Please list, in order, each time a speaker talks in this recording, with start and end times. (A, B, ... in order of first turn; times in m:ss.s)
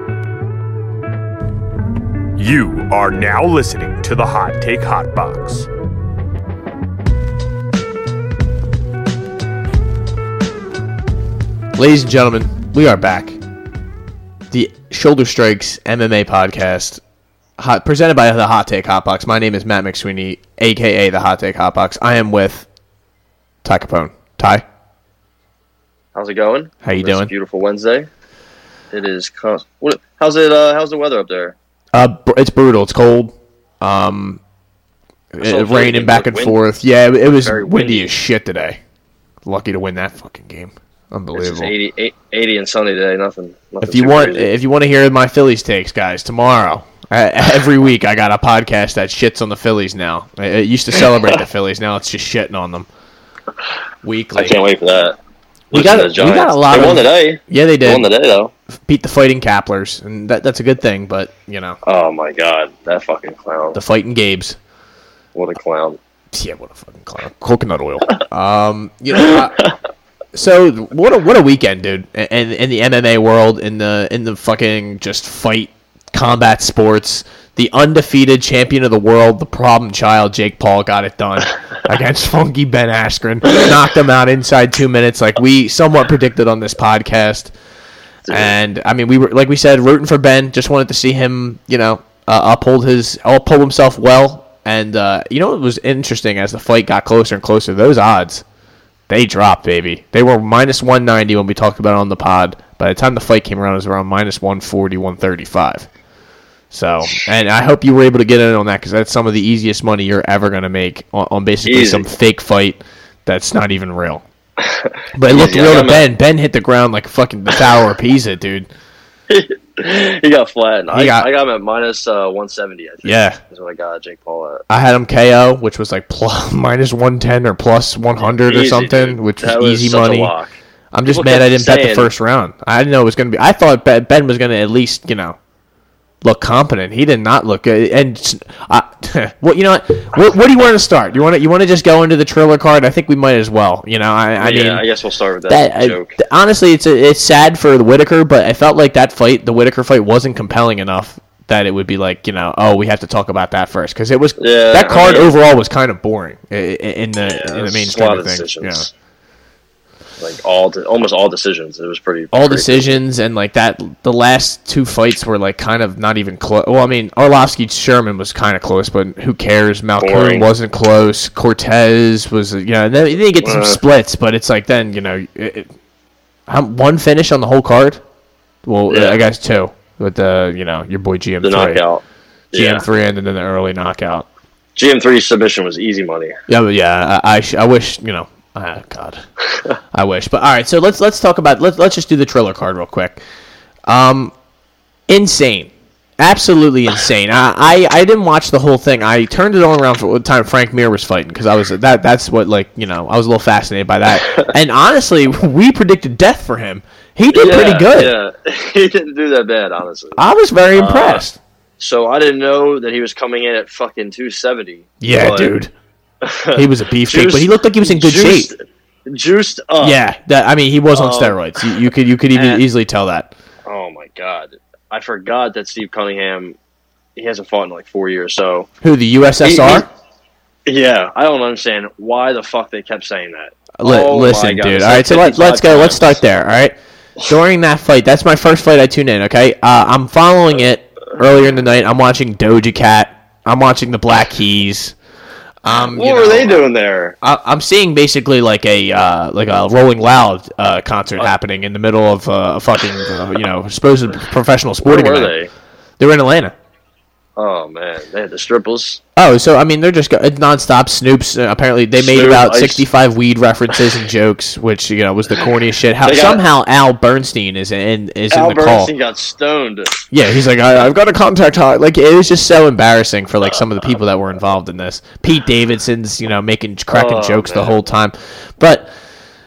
0:02.4-0:05.7 A
0:11.8-0:13.4 B
0:14.5-0:17.0 B
0:17.6-0:22.7 B
0:23.6-0:24.6 B
0:26.2-0:28.1 C
0:26.8-0:27.3 B
0:28.9-0:31.6 C
0:31.9-0:34.4 B
0:35.3-0:38.8 B
0:35.4-0:36.6 C
0:37.4-0:38.1 C
0:39.4-0:41.7 B
0:41.4-0:44.5 C
0:43.8-0:52.9 B
0:54.0-0:54.6 B
0:54.4-0:55.2 C
0:55.7-0:58.5 C
0:55.7-0:58.1 B
0:58.7-1:01.8 B
1:01.8-1:03.8 C
1:03.7-1:04.6 B
1:05.4-1:06.0 C
1:06.3-1:09.7 B
1:09.2-1:09.7 C
1:10.3-1:27.5 B
1:28.3-1:28.5 C
1:28.3-1:38.4 B
1:39.1-1:45.9 B
1:46.7-1:54.2 B
1:51.7-1:52.1 C
1:54.6-1:56.1 C
1:55.2-1:58.7 B
1:59.3-2:04.6 C
2:00.9-2:01.3 B
2:03.0-2:03.4 B
2:04.7-2:10.3 B
2:08.4-2:10.6 C
2:10.9-2:15.4 B
2:11.1-2:12.1 C
2:16.2-2:24.8 B
2:24.4-2:26.2 C
2:25.5-2:38.9 B
2:34.4-2:35.4 C
2:37.2-2:38.9 C
2:40.2-2:43.0 C
2:42.3-2:55.7 B
2:50.0-2:50.5 C
2:53.4-2:53.8 C
2:56.5-2:58.0 B
2:58.6-3:01.8 B
2:58.9-2:59.2 C
3:01.4-3:02.8 C
3:02.5-3:04.3 B
3:04.8-3:06.4 C
3:06.5-3:09.2 B
3:09.9-3:13.2 B
3:13.9-3:14.3 B
3:15.1-3:28.1 B
3:24.2-3:24.5 C
3:27.3-3:30.2 C
3:30.2-3:31.4 B
3:30.8-3:31.2 C
3:31.8-3:35.6 C
3:35.0-3:35.7 B
3:36.2-3:40.0 C
3:36.5-3:38.5 B
3:39.8-3:43.3 B
3:40.9-3:41.7 C
3:42.3-3:42.6 C
3:43.7-3:46.6 C
3:47.2-3:48.7 C
3:48.8-3:49.9 B
3:49.4-3:49.9 C
3:50.7-3:56.2 C
3:53.8-4:05.0 B
4:05.6-4:06.7 B
4:05.7-4:07.2 C
4:07.2-4:15.3 B
4:14.8-4:15.5 C
4:16.0-4:16.6 B
4:17.4-4:19.0 C
4:19.2-4:28.9 B
4:22.0-4:22.8 C
4:26.0-4:26.4 C
4:28.3-4:30.0 C
4:30.1-4:38.9 B
4:36.9-4:37.8 C